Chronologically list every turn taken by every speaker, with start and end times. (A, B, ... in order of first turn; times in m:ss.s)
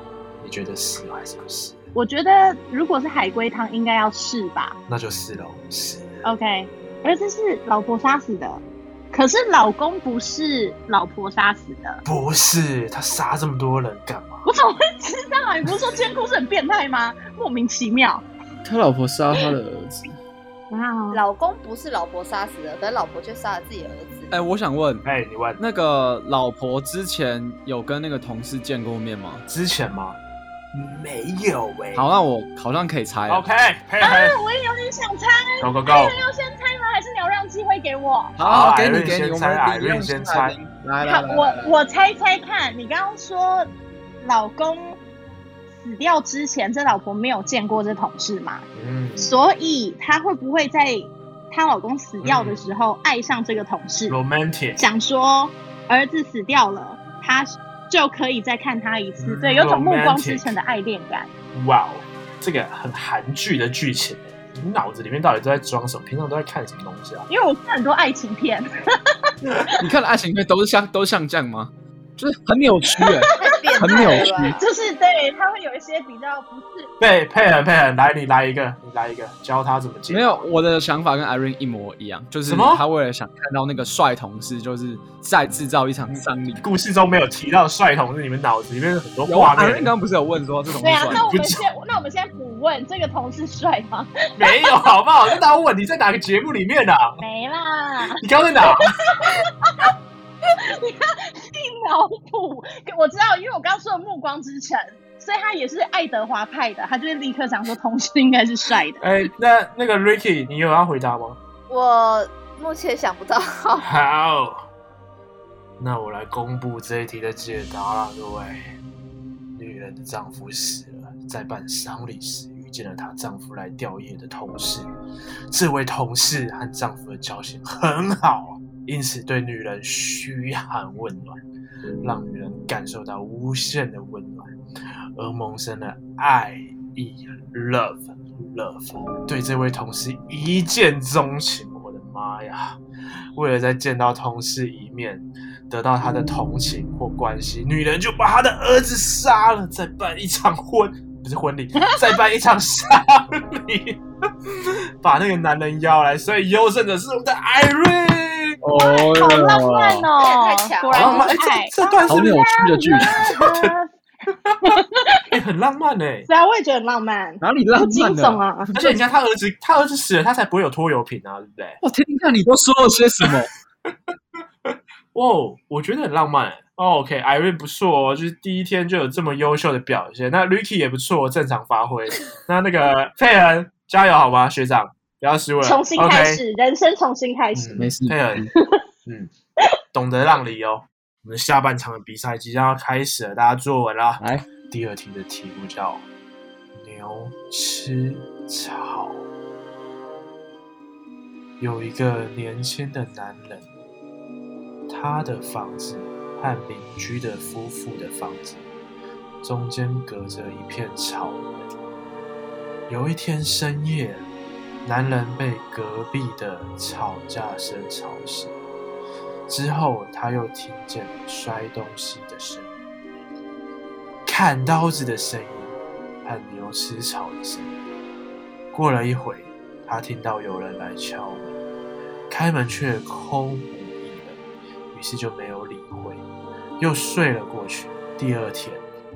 0:00.4-0:01.8 A
0:01.9-0:04.8 B
0:04.9-0:06.1 A
0:06.2-0:12.0 B
0:12.0-0:14.4 A
0:14.4-0:18.2 B
0:18.6-0:20.1 C
0:20.7-0:21.2 B
0:21.1-0:24.3 D
0:24.3-0:25.0 C
0:25.0-0:25.6 A
0:25.6-0:29.4 C
0:29.5-0:30.2 A
0:30.7-0:32.1 A
0:31.9-0:33.4 C
0:33.3-0:34.4 A
0:34.0-0:38.4 B
0:35.6-0:36.2 A
0:38.4-0:41.7 C
0:38.4-0:40.6 A
0:41.0-0:43.7 B
0:44.2-0:45.0 B
0:45.8-0:48.6 B
0:48.7-0:49.3 A
0:49.2-0:54.2 B
0:52.2-0:52.6 A
0:54.1-0:54.8 A
0:54.8-1:01.3 B
0:59.2-1:00.5 A
1:01.5-1:07.3 A
1:07.3-1:08.7 B
1:09.8-1:14.6 C
1:13.0-1:16.9 B
1:13.4-1:14.6 D
1:17.0-1:20.4 A
1:20.1-1:26.6 C
1:22.4-1:22.8 A
1:26.6-1:29.9 A
1:29.3-1:31.3 C
1:30.8-1:34.7 B
1:31.1-1:31.6 A
1:34.4-1:37.2 A
1:37.2-1:39.9 B
1:38.2-1:38.9 A
1:40.6-1:49.0 B
1:49.0-1:51.4 A
1:51.7-1:53.9 D
1:53.8-1:54.6 A
1:55.8-1:58.7 A
1:59.6-2:04.9 A
2:05.5-2:11.4 A
2:12.0-2:14.5 A
2:15.2-2:22.8 A
2:23.3-2:38.6 A
2:38.6-2:40.1 C
2:38.8-2:43.9 B
2:40.2-2:41.3 D
2:40.9-2:42.4 A
2:42.1-2:43.2 C
2:43.0-2:43.7 A
2:44.3-2:44.8 A
2:44.6-2:45.2 B
2:45.3-2:46.3 A
2:46.3-2:48.7 B
2:47.4-2:49.0 C
2:48.7-2:51.8 A
2:51.8-2:53.5 C
2:54.6-3:06.4 A
3:05.6-3:07.9 B
3:07.5-3:08.5 A
3:07.8-3:08.5 C
3:08.5-3:08.8 B
3:09.0-3:09.3 A
3:09.9-3:16.0 A
3:14.2-3:14.4 C
3:16.7-3:19.2 A
3:21.6-3:23.7 A
3:24.9-3:28.6 A
3:29.4-3:31.7 A
3:32.9-3:34.2 A
3:34.8-3:38.5 A
3:39.5-3:42.7 A
3:44.2-3:47.7 A
3:48.7-3:51.6 A
3:52.3-3:54.4 A
3:54.9-3:56.2 A
3:56.8-3:58.8 A